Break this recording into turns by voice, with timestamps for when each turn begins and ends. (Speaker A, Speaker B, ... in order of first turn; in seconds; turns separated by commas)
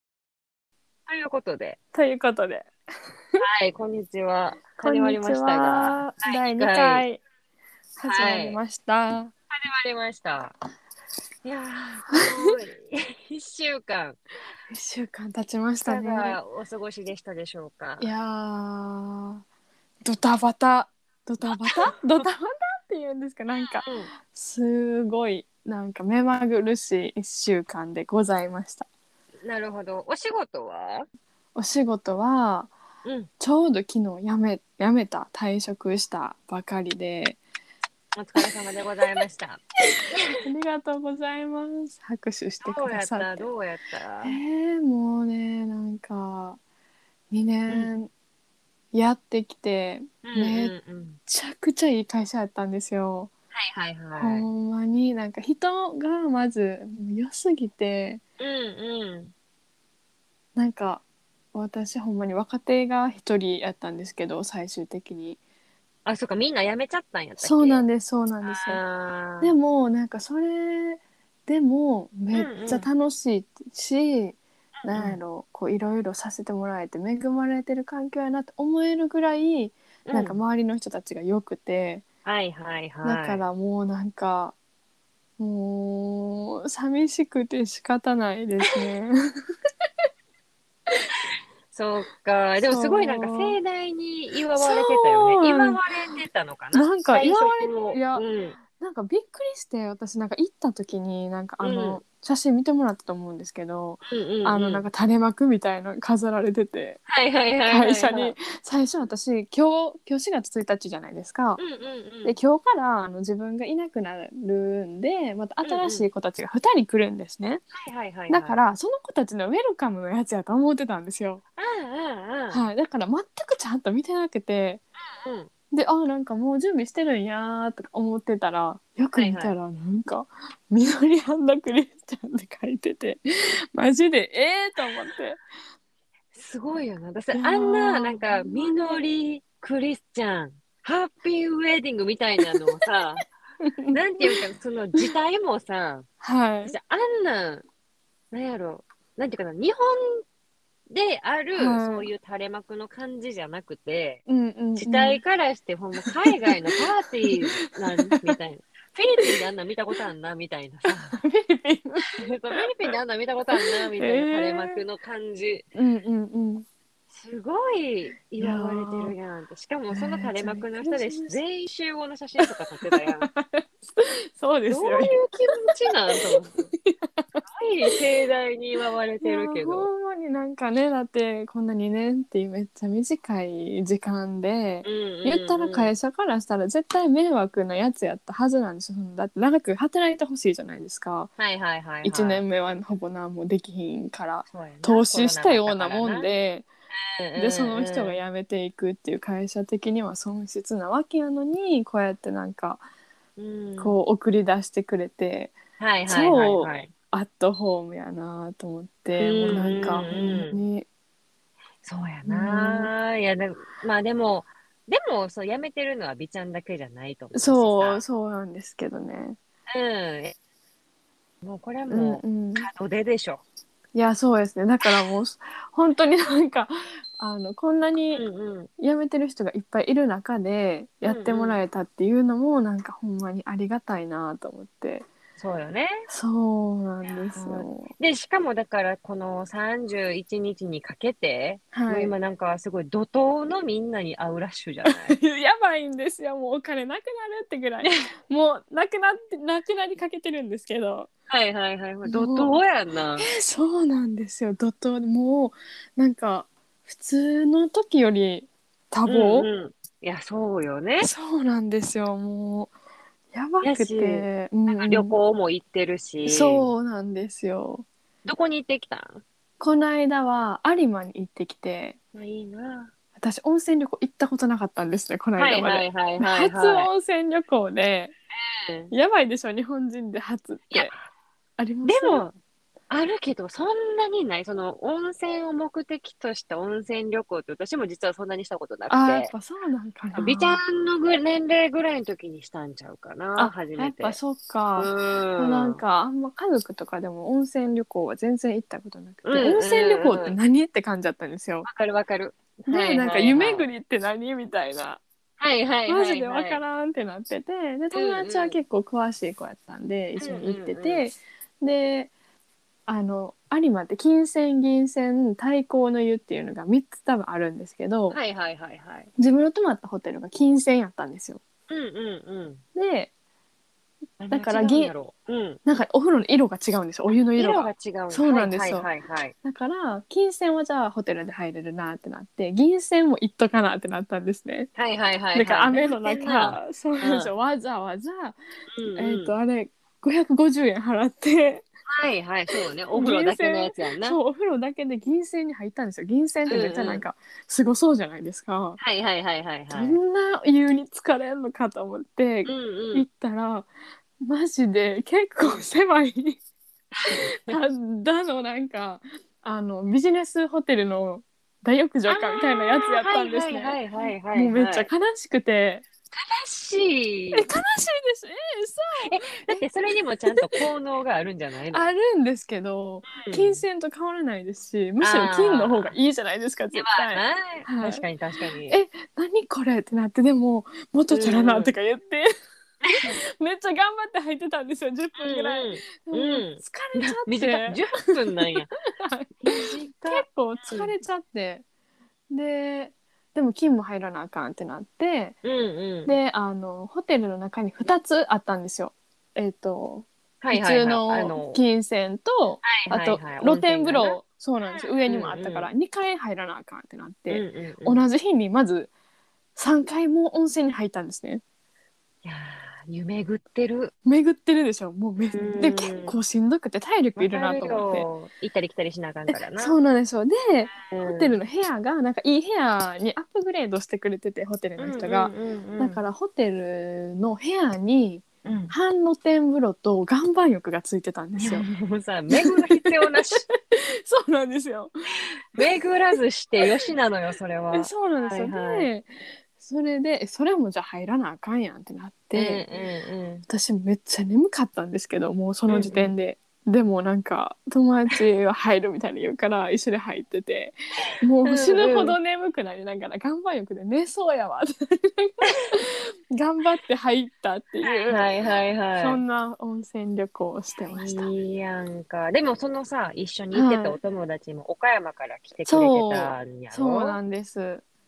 Speaker A: 1.1-1.8, Speaker B: 1.9-2.7, Speaker A: 3.4-7.1, Speaker B: 4.8-7.2, Speaker B: 8.0-9.3, Speaker A: 8.1-8.6, Speaker A: 9.5-10.6, Speaker A: 11.4-14.2, Speaker B: 12.1-12.5, Speaker B: 14.7-16.4, Speaker A: 15.8-18.1, Speaker B: 18.0-19.4, Speaker B: 20.0-28.9, Speaker A: 21.4-21.9, Speaker A: 23.6-24.1, Speaker A: 29.4-31.1, Speaker B: 31.6-32.7, Speaker A: 33.0-33.3, Speaker B: 33.4-37.4, Speaker A: 38.2-40.3, Speaker B: 40.4-43.5, Speaker A: 42.6-44.4, Speaker B: 44.2-46.6, Speaker B: 47.3-48.1, Speaker B: 48.9-50.7, Speaker A: 50.2-51.2, Speaker B: 51.3-53.3, Speaker A: 53.5-54.5, Speaker B: 54.2-58.2, Speaker A: 58.4-59.3, Speaker B: 60.5-61.0, Speaker B: 61.5-65.4, Speaker A: 66.0-67.8, Speaker B: 67.4-68.8, Speaker A: 68.4-69.5, Speaker B: 69.4-82.0, Speaker A: 72.3-72.9, Speaker A: 74.8-75.2, Speaker A: 80.1-80.4, Speaker A: 82.2-83.4, Speaker B: 83.0-84.5, Speaker B: 85.4-89.2, Speaker A: 91.7-98.6, Speaker B: 92.6-93.6, Speaker B: 94.6-95.8, Speaker B: 96.7-107.0, Speaker A: 101.6-102.0, Speaker A: 104.0-104.8, Speaker A: 107.1-108.3, Speaker B: 107.7-111.6, Speaker A: 111.6-112.4, Speaker B: 112.2-117.6, Speaker A: 115.6-116.1, Speaker A: 117.7-118.6, Speaker B: 118.3-121.4, Speaker A: 121.6-122.7, Speaker B: 122.5-124.8, Speaker A: 125.2-125.5, Speaker B: 125.7-135.4, Speaker A: 129.2-129.5, Speaker A: 136.3-143.2, Speaker B: 137.3-138.7, Speaker B: 143.6-144.4, Speaker A: 143.9-146.1, Speaker B: 146.2-146.8, Speaker A: 146.6-147.7, Speaker A: 148.3-150.2, Speaker A: 150.9-154.2, Speaker B: 151.6-152.1, Speaker B: 154.3-155.2, Speaker A: 154.8-161.2, Speaker B: 156.1-157.5, Speaker B: 158.1-158.4, Speaker B: 160.9-162.6, Speaker A: 162.2-165.7, Speaker B: 163.6-164.8, Speaker B: 165.8-166.7, Speaker A: 167.1-173.3, Speaker B: 168.4-169.2, Speaker B: 169.9-171.4, Speaker B: 172.5-178.0, Speaker A: 174.7-176.7, Speaker A: 177.4-179.9, Speaker B: 179.2-191.3, Speaker A: 184.8-185.9, Speaker A: 191.4-192.4, Speaker B: 192.0-196.7, Speaker A: 194.5-196.3, Speaker A: 196.9-198.2, Speaker B: 197.3-202.8, Speaker A: 203.4-204.0, Speaker B: 203.8-210.9, Speaker A: 205.8-206.9, Speaker A: 209.2-210.6, Speaker A: 211.8-218.0, Speaker B: 212.3-212.9, Speaker B: 217.3-219.4, Speaker A: 219.7-220.3, Speaker A: 221.4-223.4, Speaker B: 221.9-222.7, Speaker B: 223.9-228.2, Speaker A: 228.1-228.7, Speaker B: 228.8-235.1, Speaker A: 231.1-231.6, Speaker A: 235.4-236.1, Speaker B: 236.1-237.9, Speaker A: 237.3-245.2, Speaker B: 241.7-242.1, Speaker B: 244.9-251.1, Speaker A: 251.3-253.3, Speaker B: 252.1-252.5, Speaker B: 253.2-259.5, Speaker A: 259.1-261.1, Speaker B: 261.0-262.7, Speaker B: 263.3-265.1, Speaker A: 263.6-266.7, Speaker B: 266.2-267.9, Speaker A: 268.2-269.2, Speaker B: 269.6-272.0, Speaker A: 272.1-272.9, Speaker B: 273.2-278.1, Speaker A: 275.4-276.9, Speaker A: 278.4-278.9, Speaker B: 278.9-280.9, Speaker A: 280.7-281.0, Speaker B: 281.6-282.3, Speaker A: 281.8-282.4, Speaker A: 282.9-289.3, Speaker B: 288.9-290.6, Speaker A: 290.1-294.2, Speaker B: 293.4-301.7, Speaker A: 294.8-295.8, Speaker A: 299.2-300.4, Speaker A: 301.6-303.7, Speaker B: 302.6-305.0, Speaker A: 305.4-306.6, Speaker B: 305.9-312.1, Speaker A: 307.9-308.6, Speaker A: 310.2-311.1, Speaker B: 312.9-318.2, Speaker A: 318.1-319.1, Speaker B: 319.2-321.4, Speaker A: 321.7-322.6, Speaker B: 322.8-323.1, Speaker A: 324.2-325.6, Speaker B: 324.3-324.9, Speaker B: 325.7-328.9, Speaker A: 327.3-329.4, Speaker B: 329.4-334.7, Speaker A: 334.8-337.3, Speaker B: 335.3-338.4, Speaker A: 338.8-339.4, Speaker B: 339.0-341.6, Speaker A: 341.9-344.2, Speaker B: 342.5-348.8, Speaker A: 346.5-347.1, Speaker A: 348.8-350.0, Speaker B: 349.7-353.7, Speaker A: 352.4-353.1, Speaker B: 354.2-356.4, Speaker A: 357.0-357.6, Speaker B: 357.1-363.8, Speaker A: 362.1-364.9, Speaker B: 364.3-365.9, Speaker A: 366.1-367.5, Speaker B: 367.3-369.6, Speaker A: 369.0-371.9, Speaker B: 370.3-370.6, Speaker B: 371.7-378.0, Speaker A: 373.1-373.6, Speaker A: 375.0-375.9, Speaker A: 376.7-378.8, Speaker B: 378.7-382.3, Speaker A: 381.1-381.8, Speaker A: 382.8-383.2, Speaker B: 383.0-387.8, Speaker A: 385.2-388.7, Speaker B: 388.5-391.6, Speaker A: 389.4-390.9, Speaker B: 392.3-395.4, Speaker A: 395.4-396.2, Speaker B: 396.1-408.9, Speaker A: 400.4-401.6, Speaker A: 402.6-405.7, Speaker A: 407.3-408.1, Speaker B: 409.6-411.4, Speaker A: 412.2-413.9, Speaker B: 414.1-418.1, Speaker A: 415.2-416.2, Speaker A: 417.2-419.8, Speaker B: 419.6-431.7, Speaker A: 420.9-421.4, Speaker A: 424.8-426.0, Speaker A: 428.4-428.8, Speaker A: 431.4-433.5, Speaker B: 432.4-435.8, Speaker A: 435.5-438.9, Speaker B: 437.7-442.6, Speaker A: 442.3-443.5, Speaker B: 443.5-458.3, Speaker A: 445.7-446.1, Speaker A: 451.4-452.2, Speaker A: 455.5-455.7, Speaker A: 457.8-459.2, Speaker B: 459.0-461.3, Speaker A: 460.9-467.2, Speaker B: 463.5-464.0, Speaker B: 465.7-467.8